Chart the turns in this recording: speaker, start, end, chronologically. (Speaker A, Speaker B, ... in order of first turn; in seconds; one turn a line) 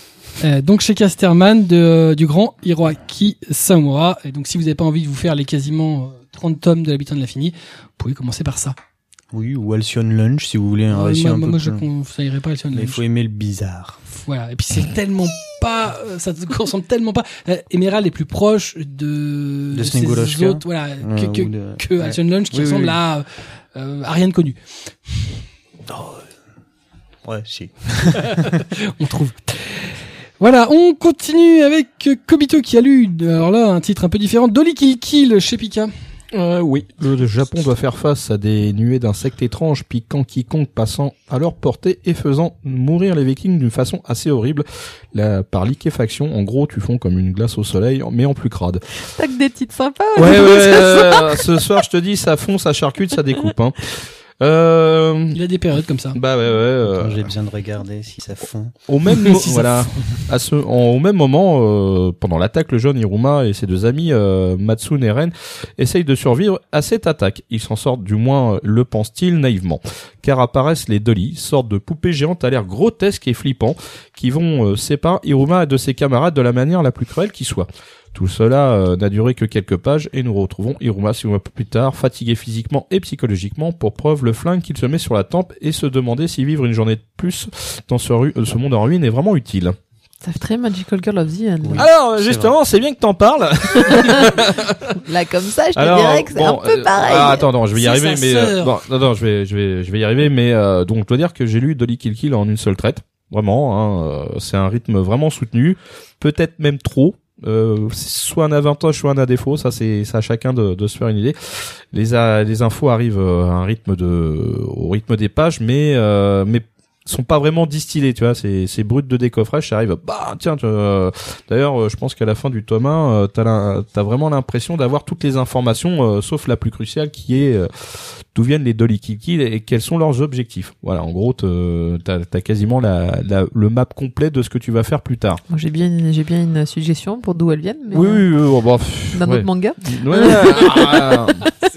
Speaker A: 0.4-8.8
Speaker B: 9.3-11.8
Speaker A: 10.9-13.0
Speaker B: 12.7-14.0
Speaker A: 14.1-24.6
Speaker B: 19.7-23.0
Speaker B: 25.9-26.2
Speaker B: 27.2-28.6
Speaker A: 28.2-35.9
Speaker C: 36.3-48.8
Speaker D: 49.0-51.6
Speaker C: 50.1-55.4
Speaker A: 55.3-56.2
Speaker C: 56.1-57.3
Speaker B: 56.9-58.7
Speaker C: 58.9-89.8
Speaker A: 59.2-60.2
Speaker D: 90.2-91.9
Speaker B: 91.6-92.5
Speaker C: 91.8-95.0
Speaker D: 93.7-97.5
Speaker C: 95.7-135.4
Speaker A: 97.7-98.8
Speaker D: 135.5-138.3
Speaker C: 137.9-141.5
Speaker D: 139.1-141.3